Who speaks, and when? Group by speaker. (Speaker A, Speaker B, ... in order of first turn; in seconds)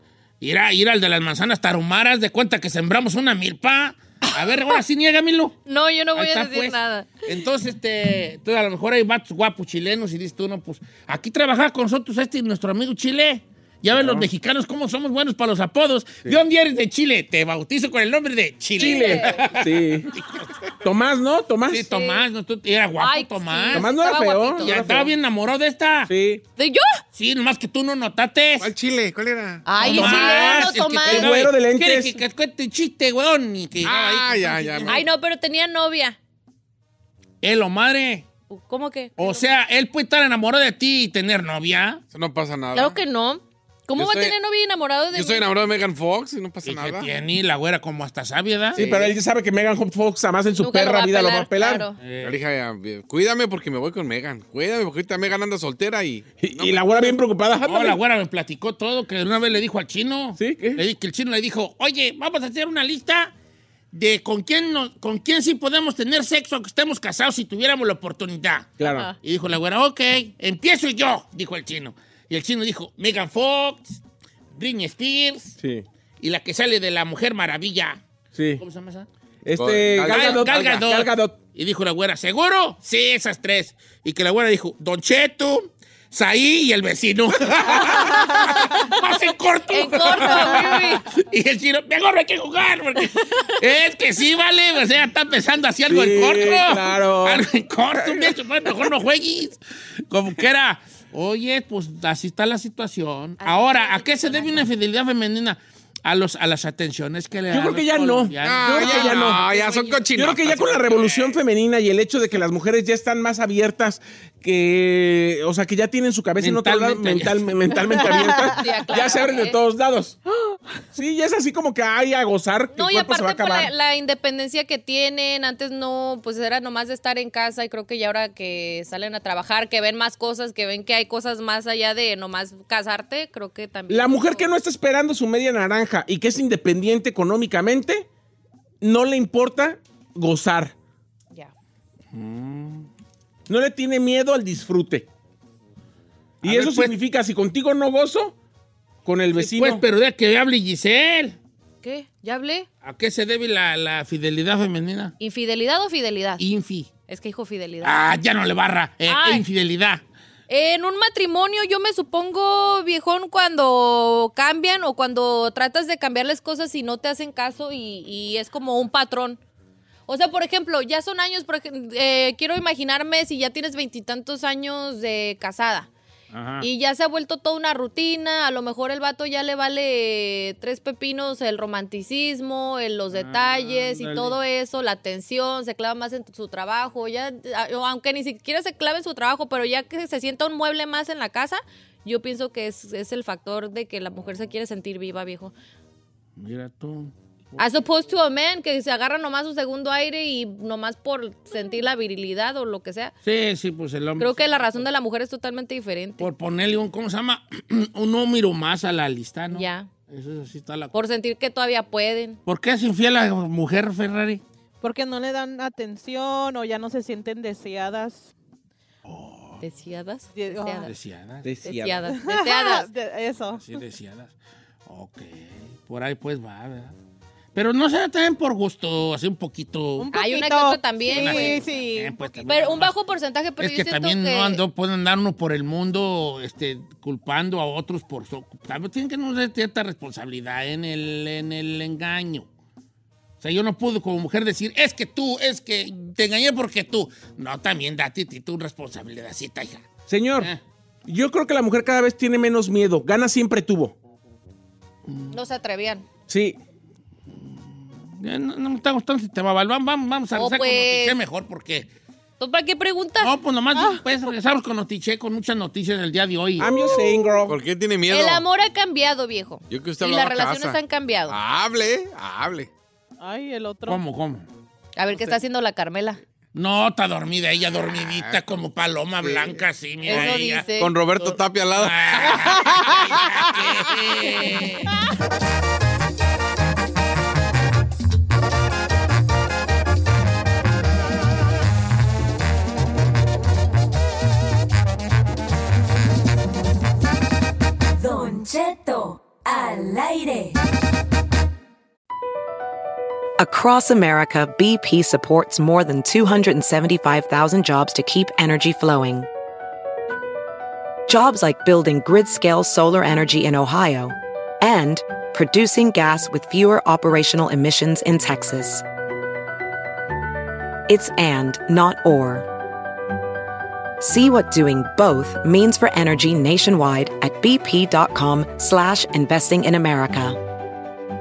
Speaker A: 0.4-5.6, 6.2-20.5, 21.7-24.0, 24.6-26.1, 27.1-28.7, 29.8-35.0, 37.4-38.3, 39.2-42.0, 46.6-48.9, 52.0-52.4, 57.6-63.3, 63.9-74.0, 74.5-75.6, 76.2-78.0, 78.6-79.1, 80.0-99.6, 100.1-111.3, 116.4-117.9, 142.1-142.9, 146.4-146.9, 149.3-151.4, 152.8-155.1, 156.4-156.9, 157.8-160.0, 176.3-176.7, 183.1-184.4, 196.4-197.6, 203.2-204.8, 206.2-210.9, 212.5-214.4, 219.1-219.6, 220.8-221.5, 223.5-224.3, 224.9-226.9, 227.6-230.1, 231.1-232.9, 233.6-242.5, 243.4-249.9, 255.1-255.3, 258.2-261.9, 263.2-266.7, 273.9-274.5, 276.5-284.9
Speaker B: 5.7-7.2, 18.8-19.3, 21.9-22.2, 23.0-24.8, 26.6-27.0, 29.7-31.3, 34.9-36.2, 38.5-39.5, 42.7-45.5, 50.6-52.0, 68.8-69.1, 89.7-91.0, 103.4-104.7, 118.4-119.6, 122.8-134.5, 151.8-152.7, 155.2-156.4, 157.1-158.0, 159.1-159.4, 160.5-169.4, 170.1-175.9, 176.6-195.5, 197.6-203.1, 204.2-206.3, 209.5-209.9, 210.9-212.4, 219.6-220.9, 221.6-222.9, 230.1-231.8, 232.5-234.6, 255.3-256.1, 260.3-261.2, 262.4-263.3, 268.1-271.4, 275.0-276.2, 280.1-280.9
Speaker C: 13.9-14.3, 18.8-20.1, 20.8-21.9, 23.7-25.1, 26.1-26.4, 29.8-32.2, 48.8-51.9, 56.4-58.0, 60.4-60.8, 68.8-69.1, 75.6-75.8, 78.3-78.6, 79.5-81.3, 95.9-97.4, 98.0-98.4, 107.5-109.4, 110.1-120.2, 120.9-123.7, 133.9-138.1, 138.8-140.7, 143.5-145.1, 146.4-148.3, 149.1-149.8, 221.4-222.0, 250.1-250.5, 251.1-253.9, 256.3-256.6, 266.6-267.6
Speaker D: 28.6-29.7, 33.8-35.0, 42.1-43.0, 44.0-44.4, 45.1-47.1, 48.8-49.2, 52.2-57.0, 79.6-80.6, 108.4-111.0, 267.5-268.4, 269.7-272.7, 277.9-278.6, 279.2-279.6, 280.8-282.7
Speaker E: 118.0-118.8, 214.8-218.3, 220.3-220.9, 222.1-223.8, 230.0-232.2, 263.8-264.0, 273.2-274.0
Speaker F: 298.0-300.5
Speaker G: 303.4-309.3, 311.1-318.8, 320.9-322.5, 324.0-330.4